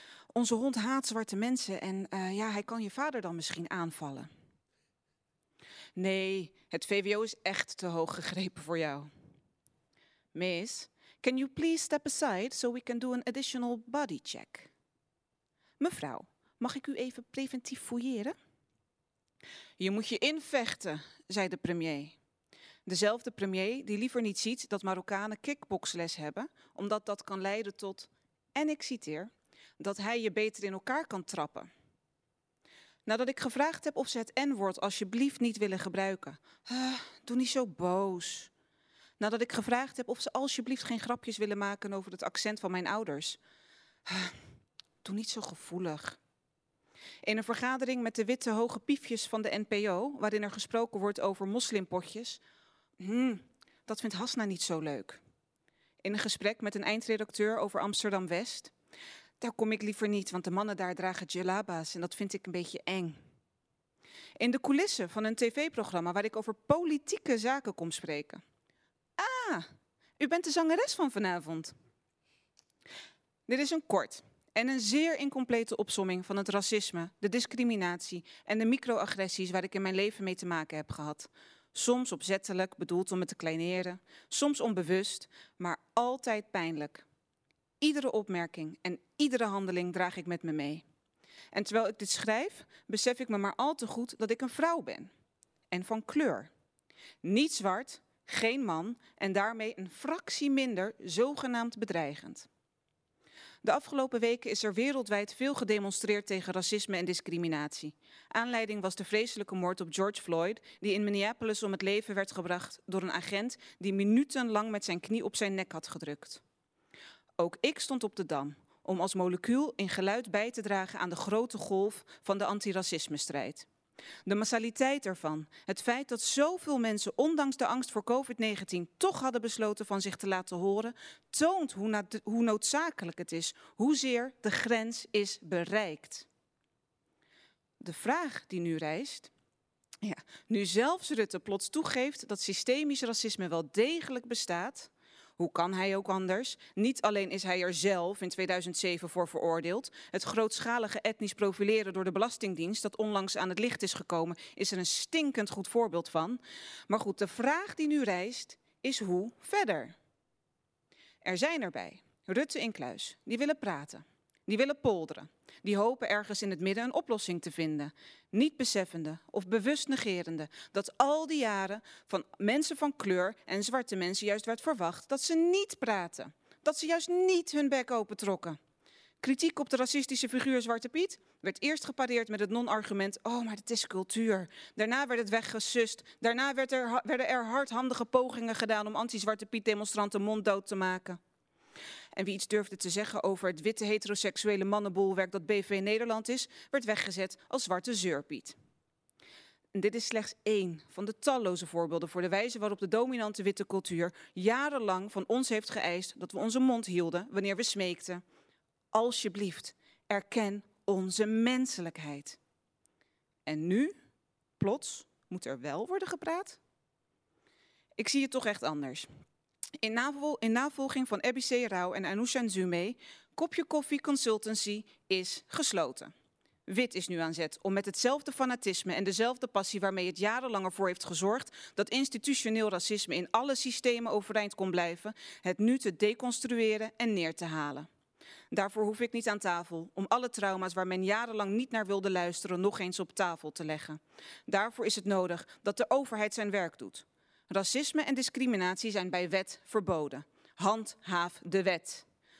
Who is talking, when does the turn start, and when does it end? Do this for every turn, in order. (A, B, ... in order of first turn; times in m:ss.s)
0:00.3-0:04.3 A
0:06.0-0:09.1 A
0:10.3-0:14.7 A
0:15.8-0:18.3 A
0:19.8-0:22.2 A
0:22.8-0:31.7 A
0:33.0-0:38.5 A
0:39.2-0:43.4 A
0:44.1-0:44.3 A
0:45.0-0:46.2 A
0:47.2-0:52.4 A
0:53.0-0:55.2 A
0:56.0-0:58.7 A
0:59.4-1:03.2 A
1:04.4-1:08.4 A
1:09.2-1:09.7 A
1:10.2-1:11.7 A
1:13.5-1:27.0 A
1:27.8-1:30.8 A
1:31.5-1:35.1 A
1:35.7-1:36.5 A
1:37.2-1:42.5 A
1:43.6-1:56.4 A
1:57.4-2:03.6 A
2:04.2-2:16.3 A
2:17.8-2:19.3 A
2:20.0-2:39.9 A
2:41.2-2:58.6 A
2:59.2-3:11.2 A
3:12.1-3:18.5 A
3:19.7-3:28.2 A
3:28.9-3:32.4 A
3:33.4-3:33.9 A
3:34.6-3:36.6 A
3:38.0-3:39.1 A
3:39.8-3:46.1 A
3:46.7-3:57.9 A
3:58.5-4:12.0 A